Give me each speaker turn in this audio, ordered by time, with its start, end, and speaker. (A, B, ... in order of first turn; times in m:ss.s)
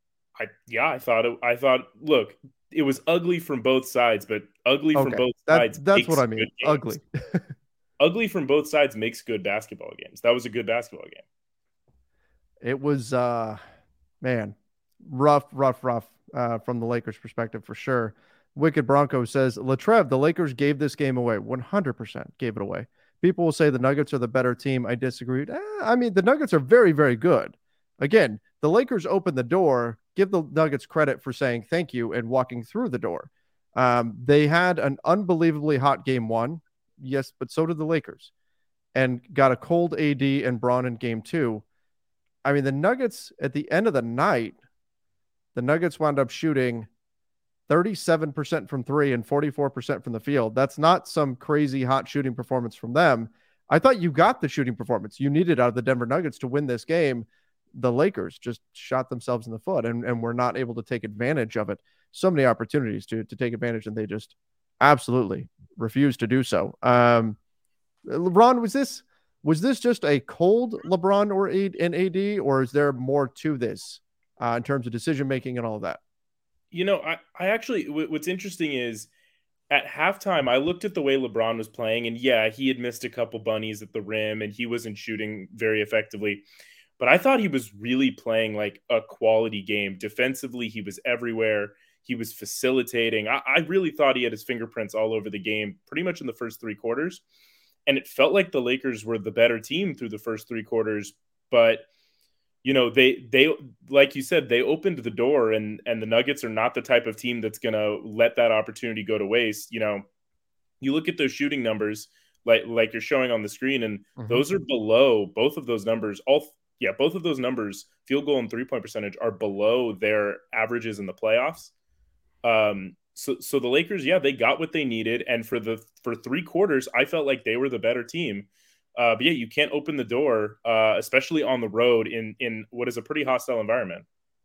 0:00.4-0:06.8 A
0:04.9-0:07.5 B
0:08.0-0:11.2 A
0:12.6-0:13.6 B
0:14.2-0:38.3 B
0:38.9-0:41.6 B
0:42.4-0:44.6 B
0:45.6-0:46.9 B
0:47.7-1:07.4 B
1:08.1-1:16.0 B
1:16.7-1:19.1 A
1:19.7-1:26.4 A
1:27.0-1:37.2 A
1:37.9-1:41.8 A
1:42.6-1:50.0 A
1:50.8-2:01.7 A
1:54.2-1:54.4 B
2:02.4-2:14.0 A